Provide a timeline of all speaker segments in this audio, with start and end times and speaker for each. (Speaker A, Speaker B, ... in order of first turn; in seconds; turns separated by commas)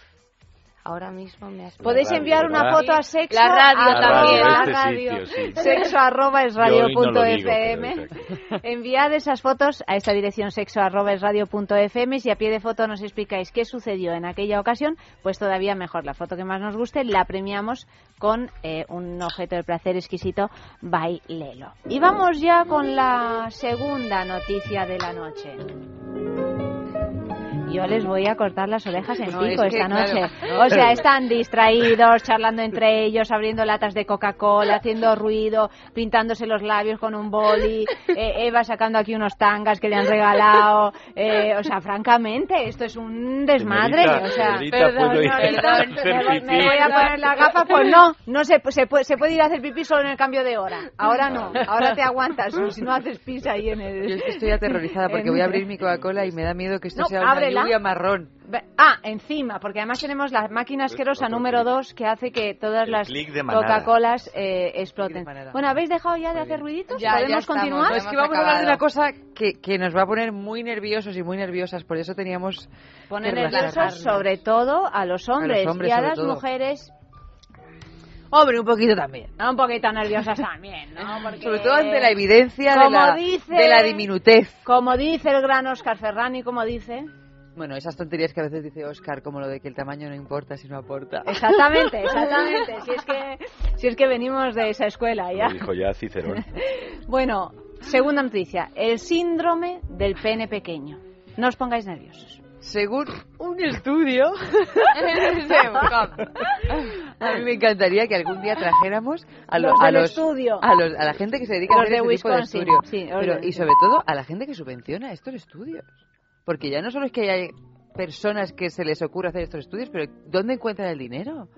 Speaker A: 0.8-4.8, Speaker B: 1.8-25.6, Speaker C: 1.8-2.8, Speaker C: 3.8-5.7, Speaker C: 6.6-8.2, Speaker B: 27.7-55.7, Speaker D: 29.3-30.8, Speaker C: 43.6-47.0, Speaker A: 44.5-47.4, Speaker C: 51.3-51.7, Speaker D: 54.0-58.3, Speaker C: 56.0-56.3, Speaker B: 56.9-57.8, Speaker B: 58.5-68.1, Speaker C: 60.9-61.7, Speaker C: 62.9-63.9, Speaker D: 65.0-65.7, Speaker D: 66.3-66.6, Speaker A: 66.9-68.8, Speaker D: 67.8-72.7, Speaker B: 73.1-76.9, Speaker D: 73.2-74.1, Speaker A: 73.5-74.2, Speaker D: 75.4-76.4, Speaker D: 78.3-79.3, Speaker B: 79.4-84.1, Speaker D: 81.0-84.6, Speaker B: 84.7-87.1, Speaker D: 87.6-92.2, Speaker B: 91.2-95.7, Speaker C: 95.3-96.4, Speaker B: 96.4-102.4, Speaker D: 102.6-115.9, Speaker A: 105.1-106.2, Speaker B: 109.5-110.7, Speaker B: 111.7-113.7, Speaker D: 116.5-121.5